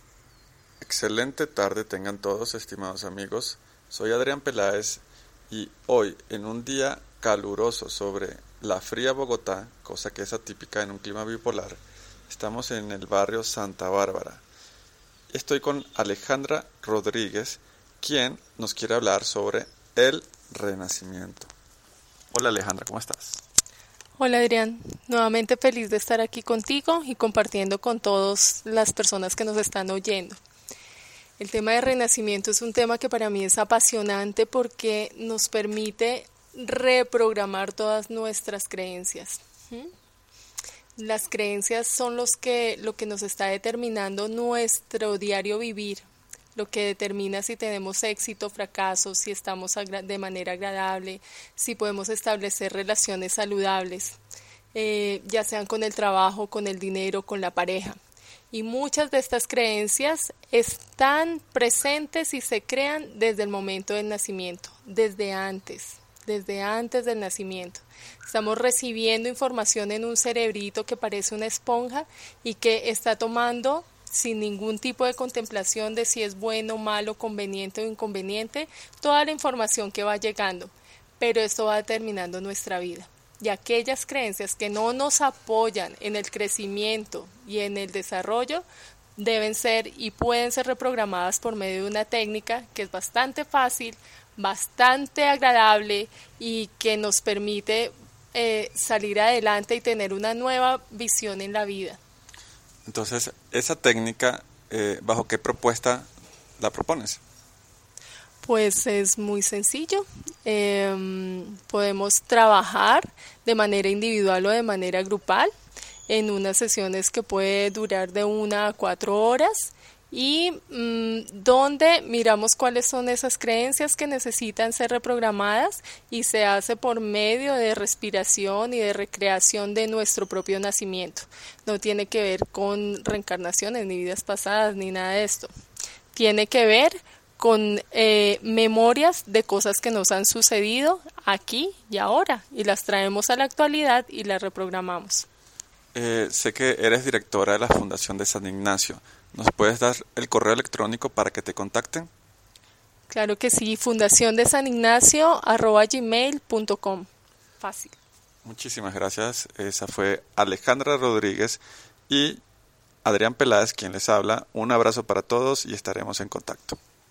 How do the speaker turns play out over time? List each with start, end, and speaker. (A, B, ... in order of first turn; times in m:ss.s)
0:00.8-0:14.4 A
0:15.3-0:21.5 A
0:22.3-0:23.4 A
0:24.2-0:30.4 B
0:31.4-0:39.9 B
0:41.0-0:54.2 B
0:54.7-0:58.0 B
0:58.5-1:28.6 B
1:29.2-1:42.0 B
1:42.9-1:46.1 A
1:46.6-1:47.2 A
1:48.4-1:55.5 B
1:56.1-2:15.5 B
2:16.1-2:25.2 B
2:25.9-2:32.1 A
2:33.1-2:37.1 B
2:37.6-2:38.0 B
2:38.4-2:42.4 A
2:43.0-2:46.8 A